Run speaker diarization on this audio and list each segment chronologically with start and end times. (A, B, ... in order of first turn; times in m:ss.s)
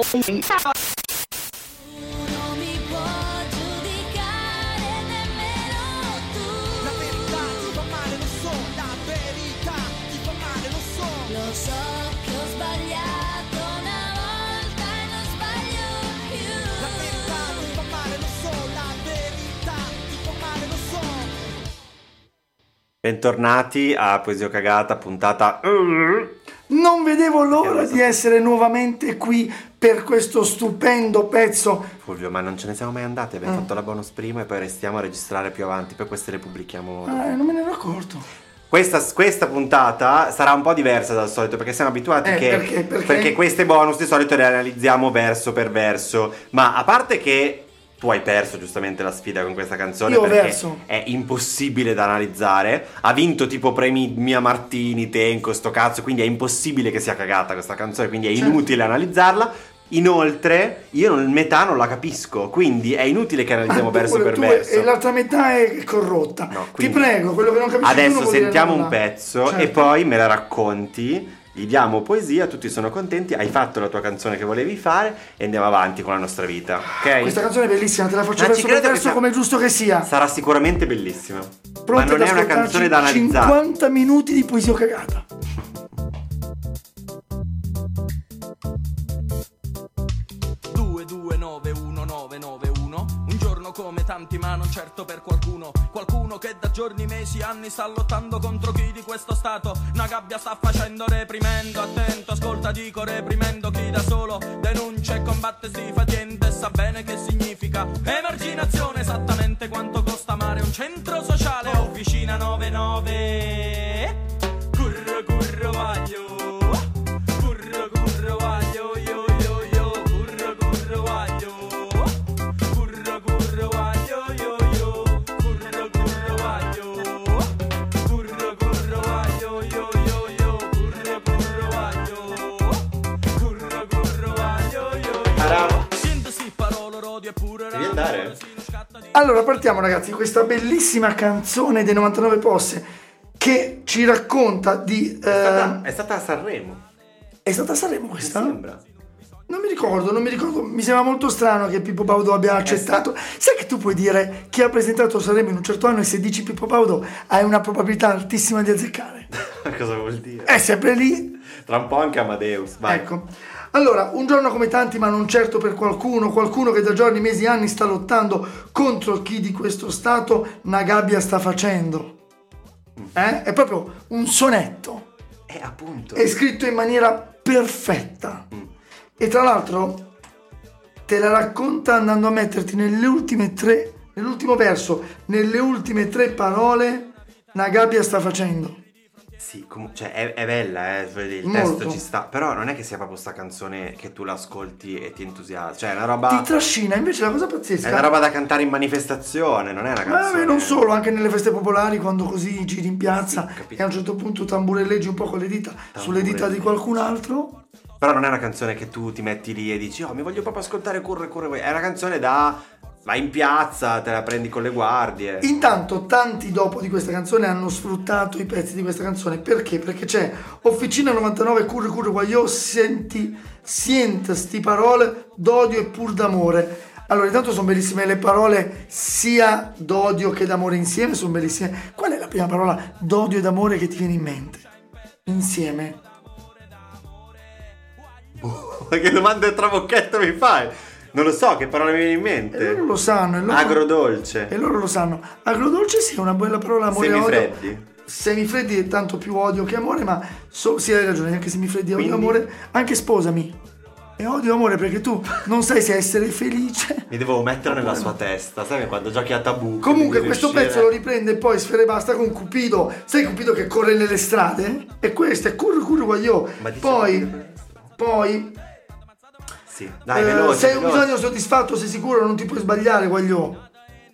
0:00.1-0:00.5 A
0:01.8-0:07.6 B
0:06.8-0:11.3 A
0:11.2-0:18.0 B
0:16.8-0:21.4 A
0:23.0-0:26.3 C
0:26.7-0:31.9 D
0:27.5-0:28.2 C
0:32.0-0:37.4 C
0:37.1-0:38.3 D
0:38.7-1:04.9 C
0:42.2-0:43.4 D
0:50.1-0:50.8 D
0:58.4-0:58.6 D
1:03.7-1:09.9 D
1:06.5-1:07.1 C
1:07.8-1:17.4 C
1:17.2-1:20.1 D
1:18.4-1:19.2 C
1:20.0-1:23.6 C
1:21.9-1:25.3 D
1:30.7-1:54.2 E
1:54.7-2:12.8 E
2:13.4-2:19.1 E
2:15.4-2:15.9 C
2:17.7-2:18.4 C
2:19.1-2:22.9 D
2:23.4-2:25.8 D
2:25.3-2:26.8 C
2:27.4-2:28.6 D
2:28.2-2:28.8 C
2:29.5-2:39.3 D
2:32.6-2:33.0 C
2:39.4-2:40.6 C
2:40.5-2:41.4 D
2:41.6-2:43.1 C
2:42.9-2:52.2 D
2:53.1-2:55.1 D
2:55.5-2:56.4 C
2:56.1-2:58.5 D
2:59.2-3:00.1 D
3:01.1-3:08.8 D
3:09.4-3:16.5 C
3:11.4-3:12.0 D
3:16.3-3:18.1 D
3:17.8-3:20.9 C
3:20.0-3:27.6 D
3:23.2-3:23.8 C
3:25.9-3:26.8 C
3:28.0-3:35.5 C
3:35.4-3:54.6 D
3:55.2-3:56.0 D
3:58.4-4:02.9 C
4:02.5-4:03.9 D
4:03.5-4:04.5 C
4:04.5-4:13.6 D
4:06.9-4:07.9 C
4:11.9-4:12.4 C
4:14.2-4:17.1 D
4:17.1-4:20.9 C
4:17.7-4:18.1 D
4:19.8-4:27.3 D
4:26.6-4:27.9 C
4:28.0-4:28.6 D
4:29.7-4:31.2 C
4:30.1-4:33.6 D